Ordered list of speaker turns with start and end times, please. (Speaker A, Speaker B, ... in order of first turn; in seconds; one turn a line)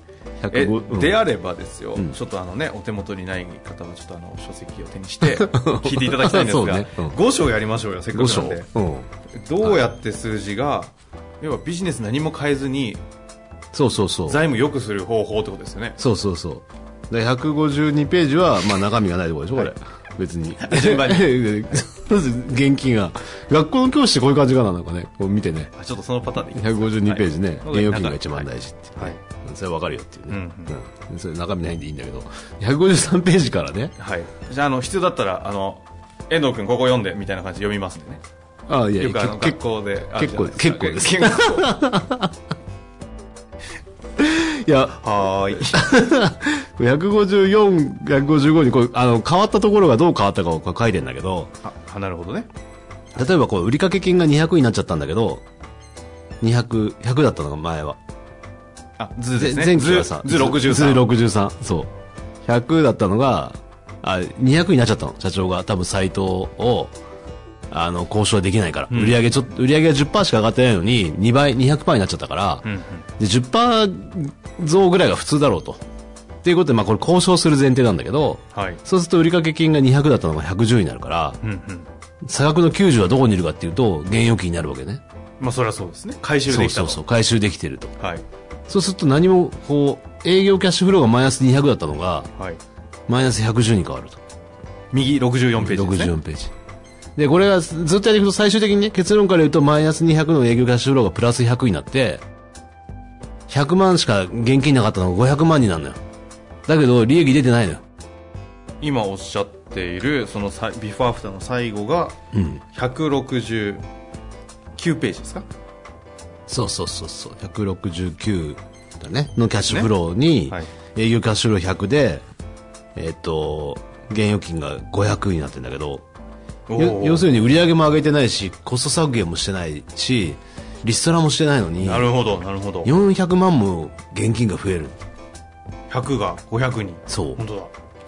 Speaker A: 0.4-1.2
Speaker B: 0.5-8.7
Speaker A: 5.3-7.2
Speaker A: 8.1-9.1
Speaker B: 9.3-13.0
Speaker A: 13.7-14.4
Speaker B: 14.2-16.0
Speaker A: 16.0-25.7
Speaker B: 20.6-21.7
Speaker B: 25.8-29.2
Speaker A: 26.5-33.9
Speaker B: 30.3-30.8
Speaker B: 34.0-38.2
Speaker A: 38.7-39.6
Speaker B: 39.0-41.7
Speaker A: 40.1-42.3
Speaker A: 44.2-45.0
Speaker B: 45.0-45.9
Speaker A: 45.5-51.5
Speaker B: 51.6-52.5
Speaker A: 53.1-55.4
Speaker A: 56.4-58.0
Speaker B: 59.0-61.1
Speaker A: 59.4-61.9
Speaker A: 62.4-66.9
Speaker A: 67.7-72.7
Speaker B: 68.9-69.3
Speaker B: 72.6-73.0
Speaker A: 73.2-75.8
Speaker A: 76.4-81.4
Speaker B: 78.5-78.8
Speaker B: 81.4-81.9
Speaker A: 82.2-85.0
Speaker B: 85.4-87.0
Speaker A: 86.5-87.9
Speaker B: 88.0-88.2
Speaker A: 88.7-92.3
Speaker A: 93.1-94.2
Speaker B: 94.9-96.1
Speaker A: 95.6-96.5
Speaker A: 97.2-102.2
Speaker A: 103.5-106.0
Speaker A: 106.7-107.8
Speaker B: 108.8-112.2
Speaker A: 112.3-112.6
Speaker B: 112.7-113.8
Speaker B: 114.8-115.5
Speaker A: 116.5-122.2
Speaker B: 119.6-119.9
Speaker A: 122.9-126.0
Speaker B: 126.7-127.3
Speaker A: 126.8-132.1
Speaker B: 131.8-132.9
Speaker A: 132.8-135.0
Speaker B: 135.9-137.7
Speaker A: 137.1-137.4